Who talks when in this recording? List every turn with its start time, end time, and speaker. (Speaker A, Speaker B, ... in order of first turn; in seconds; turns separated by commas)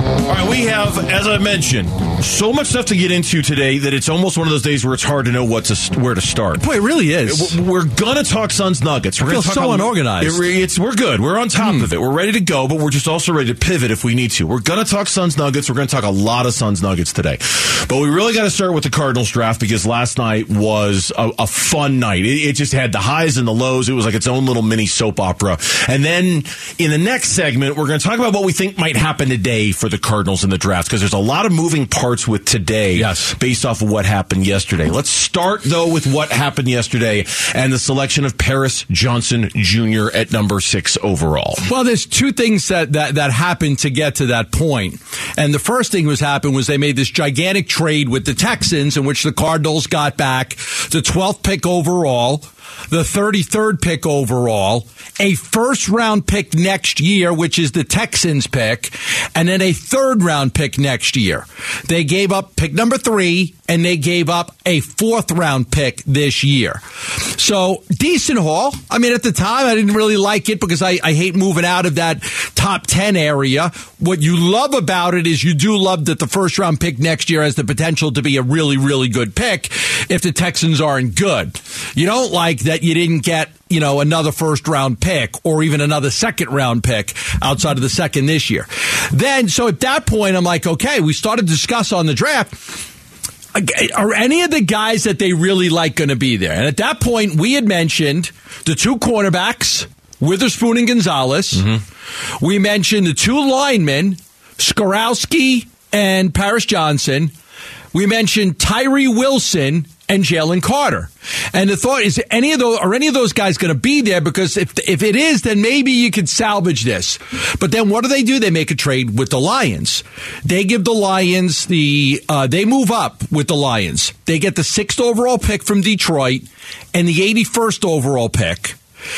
Speaker A: 0.2-6.6, Speaker B: 6.5-7.6, Speaker A: 7.2-41.6, Speaker B: 9.2-10.4, Speaker B: 11.6-11.9, Speaker B: 32.9-33.3, Speaker B: 41.6-92.6, Speaker B: 93.5-101.7, Speaker A: 101.5-101.8, Speaker B: 102.4-107.3, Speaker B: 107.9-128.8